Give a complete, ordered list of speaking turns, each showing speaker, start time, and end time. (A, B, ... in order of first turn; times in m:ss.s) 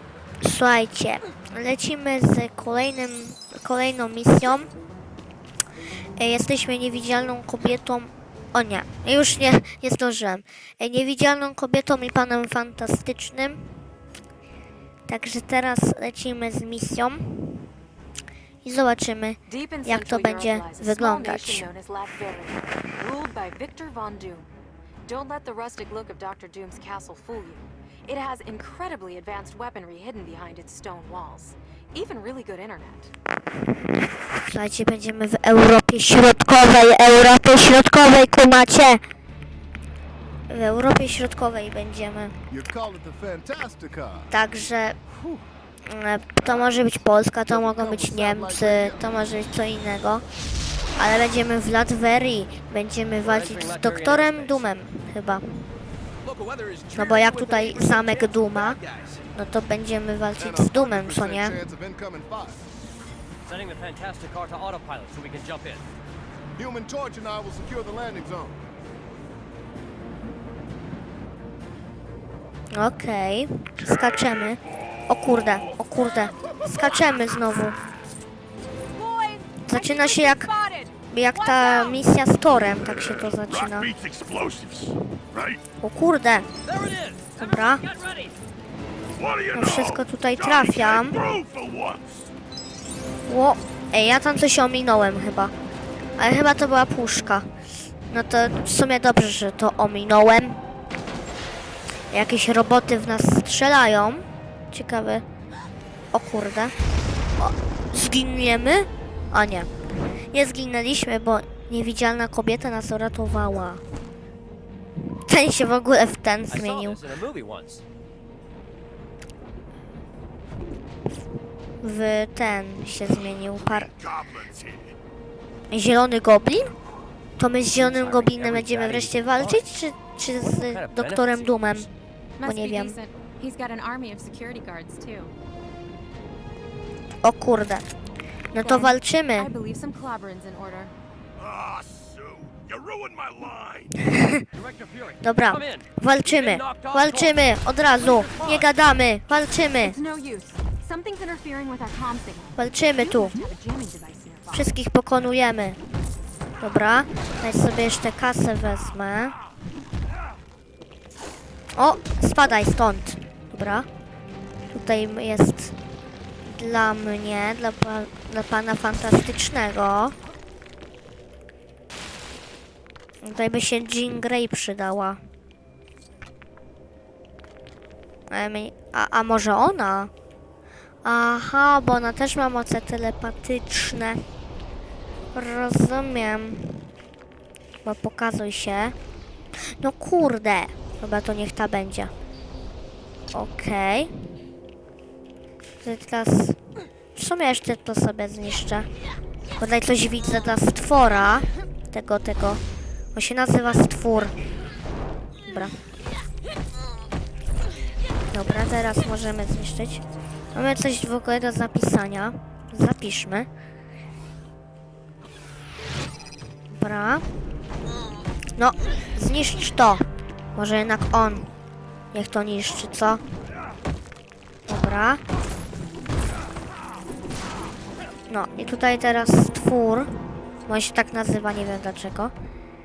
0:00.4-0:04.7 A
0:06.2-0:13.7 A
0:15.1-0:17.7 A
0:18.6-0:21.7 A
0:19.5-0:24.5 B
0:25.0-0:33.1 B
0:34.4-0:39.0 A
0:40.5-0:42.3 A
0:42.5-0:44.3 C
0:44.3-0:45.0 A
0:45.8-0:50.2 A
0:46.4-0:49.0 C
0:51.0-0:55.4 A
0:53.2-0:54.8 D
0:56.2-0:59.2 D
0:56.9-0:58.8 A
0:59.3-1:01.6 A
1:00.4-1:02.6 C
1:03.4-1:05.8 D
1:06.6-1:08.6 C
1:12.7-1:17.8 A
1:18.9-1:22.0 B
1:19.6-1:20.5 A
1:21.1-1:23.9 A
1:22.6-1:25.6 E
1:25.8-1:26.5 A
1:26.6-1:28.3 D
1:27.4-1:27.8 A
1:29.2-1:32.3 E
1:29.5-1:31.2 A
1:33.3-1:35.5 A
1:36.2-1:37.5 A
1:38.1-1:40.6 A
1:42.1-1:45.2 A
1:46.1-1:46.7 A
1:47.4-1:49.7 A
1:50.3-1:53.8 A
1:55.2-1:57.0 A
1:56.5-1:57.8 D
2:01.8-2:03.9 A
2:03.5-2:04.9 E
2:05.7-2:06.7 A
2:07.4-2:11.9 A
2:07.7-2:09.6 D
2:10.4-2:11.9 D
2:12.4-2:15.3 B
2:12.4-2:13.0 A
2:17.2-2:17.9 A
2:18.5-2:19.5 A
2:18.6-2:20.9 B
2:21.4-2:24.0 E
2:24.0-2:24.4 A
2:24.5-2:28.7 D
2:25.2-2:30.0 A
2:29.8-2:34.7 B
2:32.6-2:33.4 A
2:34.5-2:35.8 A
2:36.6-2:39.4 A
2:41.8-2:43.9 A
2:44.7-2:45.7 A
2:46.4-2:50.2 A
2:53.2-2:55.2 A
2:58.3-3:00.1 A
3:01.0-3:04.2 A
3:05.3-3:06.9 A
3:07.8-3:08.9 A
3:09.8-3:12.1 A
3:13.3-3:14.1 A
3:15.8-3:16.6 A
3:17.1-3:18.9 A
3:19.6-3:22.6 A
3:23.1-3:24.3 A
3:25.4-3:25.8 A
3:28.3-3:30.0 A
3:30.5-3:33.5 A
3:36.7-3:37.2 A
3:38.6-3:40.0 A
3:40.6-3:41.5 A
3:42.1-3:43.2 A
3:44.7-3:45.2 A
3:48.3-3:50.1 A
3:50.7-3:52.3 A